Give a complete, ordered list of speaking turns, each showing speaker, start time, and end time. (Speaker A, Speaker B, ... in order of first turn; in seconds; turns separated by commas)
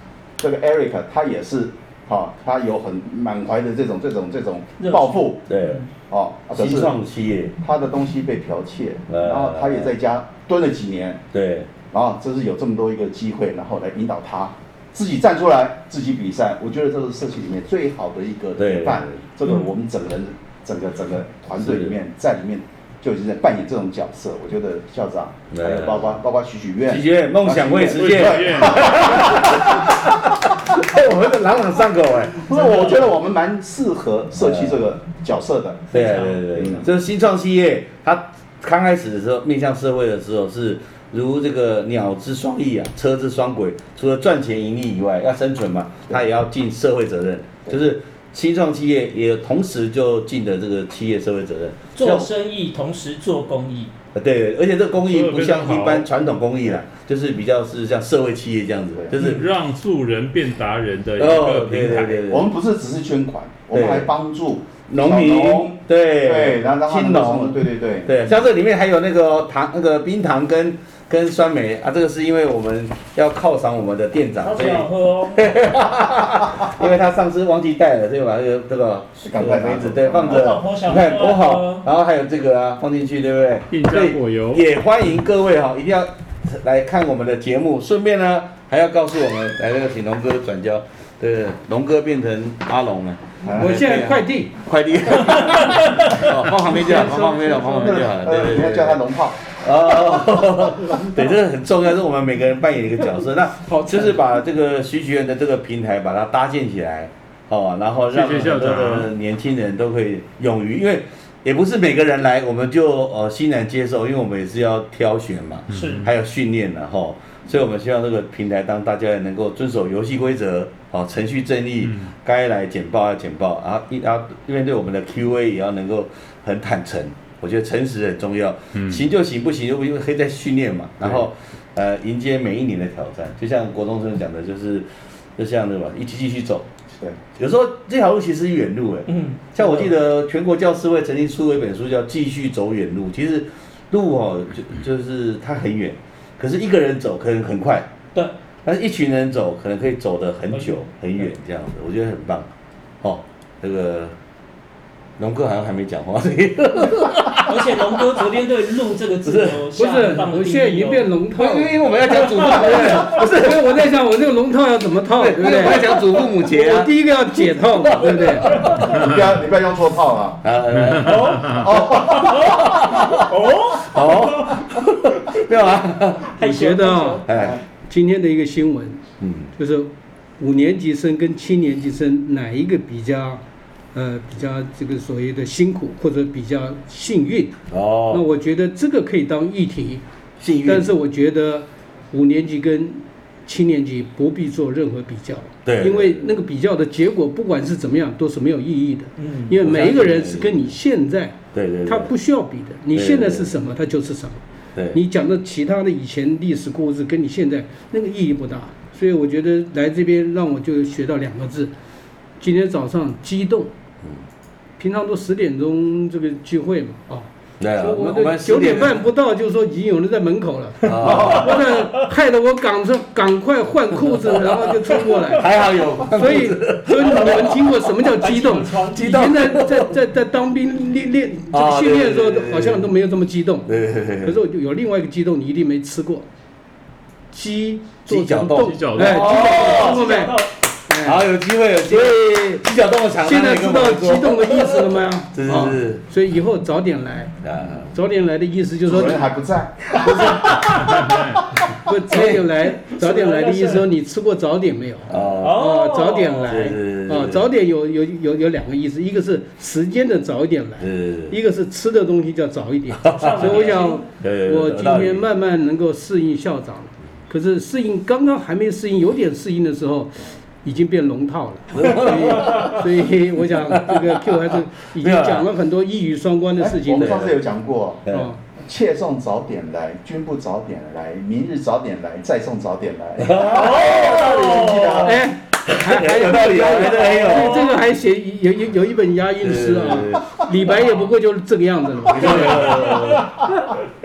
Speaker A: 0.4-5.4, Speaker B: 4.8-5.9, Speaker C: 5.5-5.8, Speaker A: 6.1-7.0, Speaker C: 6.5-7.5, Speaker A: 7.6-11.2, Speaker C: 9.1-9.9, Speaker C: 11.3-11.7, Speaker A: 11.9-30.1, Speaker C: 18.6-19.2, Speaker C: 21.6-22.0, Speaker C: 25.5-26.1, Speaker C: 26.9-33.0, Speaker D: 27.9-29.4, Speaker A: 32.4-35.9, Speaker C: 34.4-34.8, Speaker C: 35.9-52.3, Speaker B: 35.9-36.4, Speaker A: 36.5-36.8, Speaker B: 52.0-53.9, Speaker C: 54.1-59.4, Speaker D: 55.0-56.1, Speaker D: 59.2-62.3, Speaker C: 61.2-62.5, Speaker A: 62.3-68.4, Speaker C: 63.7-64.1, Speaker C: 64.9-136.7, Speaker B: 74.4-75.6, Speaker A: 79.2-80.6, Speaker B: 80.2-81.8, Speaker D: 83.7-84.7, Speaker A: 93.4-93.7, Speaker E: 93.6-94.5, Speaker B: 95.3-96.2, Speaker B: 96.8-97.5, Speaker A: 97.7-99.4, Speaker E: 103.6-104.2, Speaker D: 108.1-109.1, Speaker D: 115.7-116.1, Speaker B: 115.7-116.1, Speaker D: 121.8-122.1, Speaker D: 128.7-129.0, Speaker C: 137.3-147.9, Speaker B: 139.1-139.9, Speaker C: 148.6-152.5, Speaker B: 150.5-150.8, Speaker C: 153.0-154.2, Speaker C: 155.2-158.3, Speaker B: 157.4-161.1, Speaker C: 159.2-159.6, Speaker E: 159.8-168.7, Speaker C: 161.3-163.8, Speaker B: 162.0-163.1, Speaker C: 165.1-166.9, Speaker C: 167.8-169.1, Speaker A: 168.8-170.4, Speaker C: 170.4-176.4, Speaker D: 170.7-171.7, Speaker B: 170.9-174.6, Speaker A: 171.6-172.8, Speaker B: 176.3-177.5, Speaker E: 176.4-179.0, Speaker C: 177.2-177.6, Speaker C: 179.2-179.5, Speaker E: 179.6-183.4, Speaker E: 183.9-187.6, Speaker C: 187.7-188.2, Speaker E: 188.1-190.0, Speaker C: 190.4-190.9, Speaker E: 190.6-211.7, Speaker C: 195.6-196.3, Speaker B: 199.2-199.6, Speaker C: 199.6-200.7, Speaker C: 201.5-202.1, Speaker C: 202.9-203.5, Speaker E: 212.4-213.7, Speaker E: 214.8-236.2, Speaker C: 217.6-219.0, Speaker C: 220.8-221.6, Speaker C: 225.3-227.8, Speaker B: 228.1-229.2, Speaker C: 228.9-229.9, Speaker C: 231.5-232.9, Speaker C: 233.7-234.4, Speaker E: 237.3-241.2, Speaker C: 238.1-240.1, Speaker D: 238.6-239.4, Speaker B: 239.2-240.6, Speaker C: 241.0-246.0, Speaker E: 243.2-249.3, Speaker C: 247.4-247.9, Speaker A: 248.8-251.1, Speaker C: 250.1-250.6, Speaker D: 250.7-251.5, Speaker E: 251.8-277.2, Speaker C: 252.1-252.6, Speaker B: 253.0-253.8, Speaker C: 255.1-255.6, Speaker B: 255.3-256.6, Speaker C: 256.4-257.4, Speaker C: 260.8-261.3, Speaker B: 263.1-264.1, Speaker C: 263.1-265.3, Speaker C: 271.7-272.9, Speaker C: 273.7-274.4, Speaker C: 274.9-275.5, Speaker A: 276.6-278.1, Speaker C: 276.9-277.4, Speaker E: 278.1-278.4, Speaker A: 278.6-285.1, Speaker C: 283.2-285.0, Speaker B: 283.4-285.2, Speaker E: 285.0-292.9, Speaker C: 285.6-287.8, Speaker B: 287.1-287.7, Speaker C: 289.4-290.4, Speaker C: 292.1-293.4, Speaker B: 292.4-293.2